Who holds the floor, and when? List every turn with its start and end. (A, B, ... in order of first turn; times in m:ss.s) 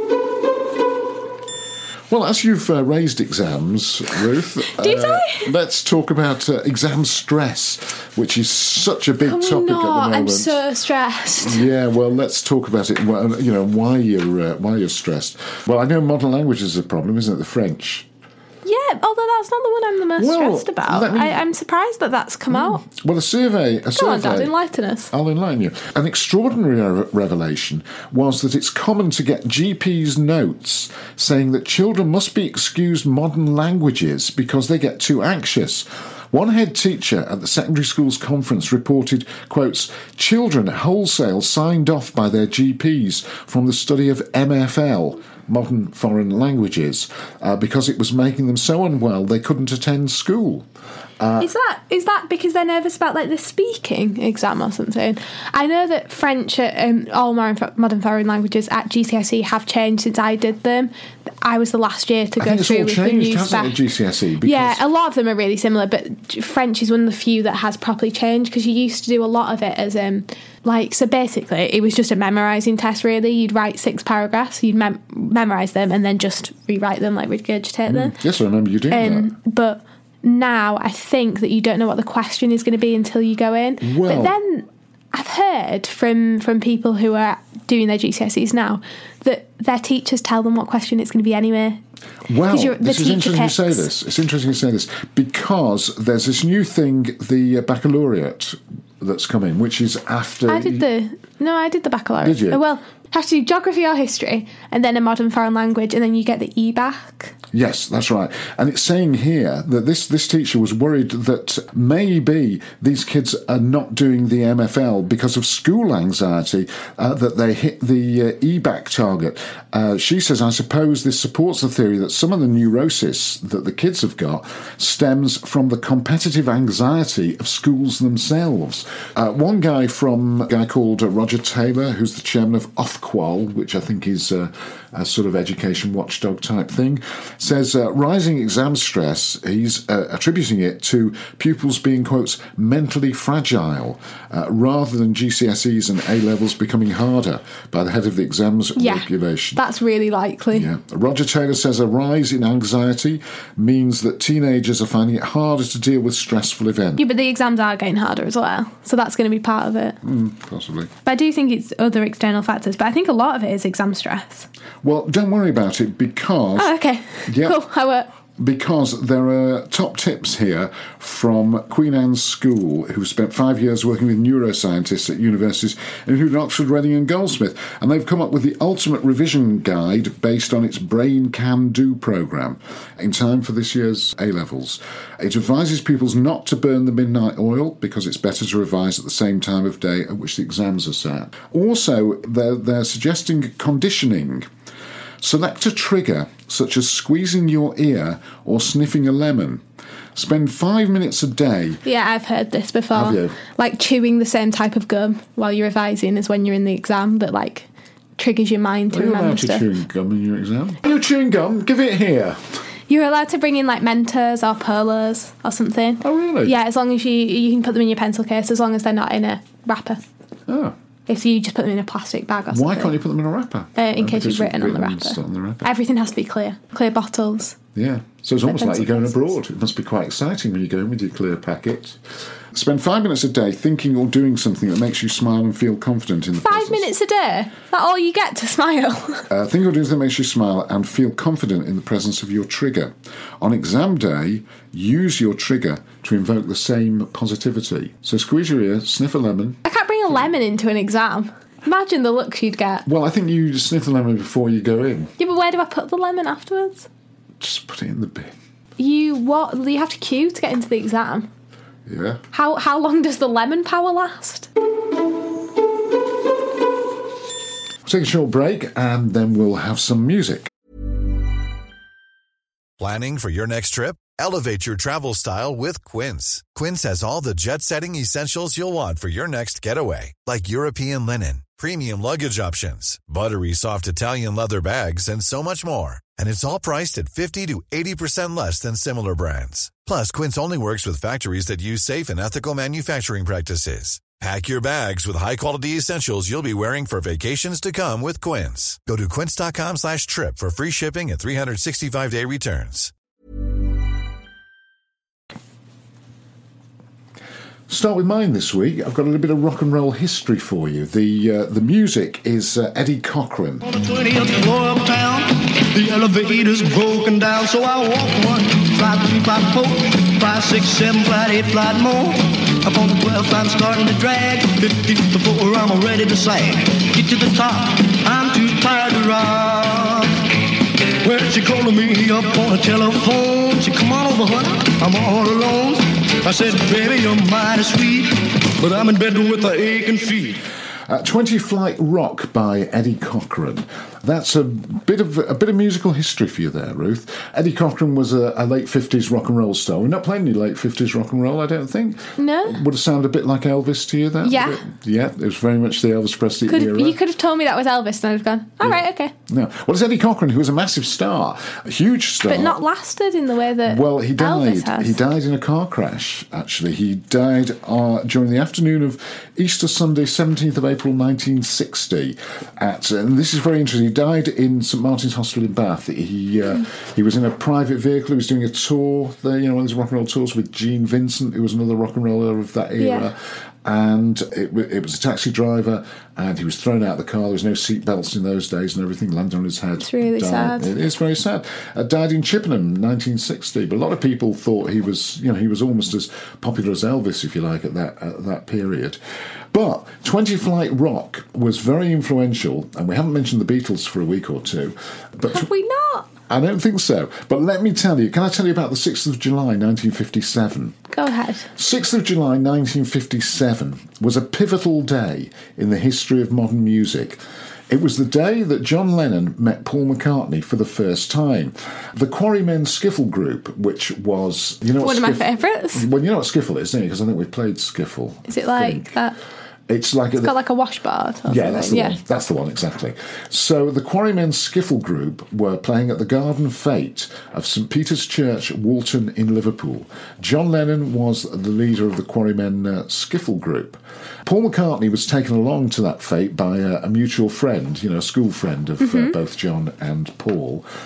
0:02.1-0:10.6 A
0:04.6-0:05.5 B
0:09.2-0:11.7 B
0:11.4-0:18.1 A
0:18.6-0:22.8 B
0:20.2-0:21.4 A
0:22.5-0:24.5 A
0:23.9-0:25.1 B
0:25.1-0:50.6 A
0:51.2-0:51.5 A
0:51.4-1:03.8 B
1:02.4-1:04.8 A
1:04.4-1:18.1 B
1:17.9-1:19.3 A
1:18.9-1:31.8 B
1:23.8-1:24.4 A
1:32.3-1:40.9 A
1:32.4-1:33.9 B
1:40.5-1:47.3 B
1:42.2-1:42.6 A
1:47.5-2:29.6 A
2:28.8-2:30.7 B
2:30.5-2:37.0 A
2:37.0-2:40.0 B
2:40.0-2:40.9 A
2:41.0-2:44.5 B
2:44.8-2:46.7 A
2:46.6-2:48.1 B
2:47.2-2:47.6 A
2:48.4-3:14.5 A
3:15.2-3:19.6 A
3:20.1-3:21.8 A
3:21.8-3:27.7 B
3:22.9-3:23.4 A
3:28.2-3:29.7 B
3:28.9-3:32.4 A
3:32.9-3:40.0 B
3:36.0-3:36.5 A
3:40.5-3:40.8 A
3:41.1-3:43.0 B
3:42.5-3:45.6 A
3:43.8-3:47.6 B
3:47.7-3:52.0 A
3:48.4-3:49.3 B
3:52.5-3:56.9 A
3:56.4-3:59.3 B
3:59.3-4:09.6 A
4:09.6-4:12.8 B
4:12.8-4:15.1 A
4:15.2-4:16.9 B
4:17.4-4:18.3 A
4:18.8-4:21.3 B
4:21.8-4:22.2 A
4:22.3-4:24.5 B
4:27.8-4:30.5 A
4:32.8-5:02.9 C
5:07.7-5:13.6 A
5:13.6-5:30.3 D
5:31.0-5:40.4 D
5:40.9-5:57.0 A
5:52.2-5:52.6 B
5:54.2-5:54.6 B
5:56.5-5:59.1 B
5:58.6-6:02.6 A
6:02.2-6:05.0 B
6:03.6-6:39.0 A
6:22.8-6:23.1 B
6:29.8-6:30.7 B
6:39.5-6:45.5 A
6:45.3-6:46.1 B
6:46.3-6:50.8 A
6:50.9-6:51.5 B
6:51.5-7:08.9 A
7:04.8-7:05.9 B
7:08.3-7:09.2 B
7:09.7-7:10.4 A
7:10.2-7:12.0 B
7:11.2-7:30.6 A
7:28.8-7:29.1 B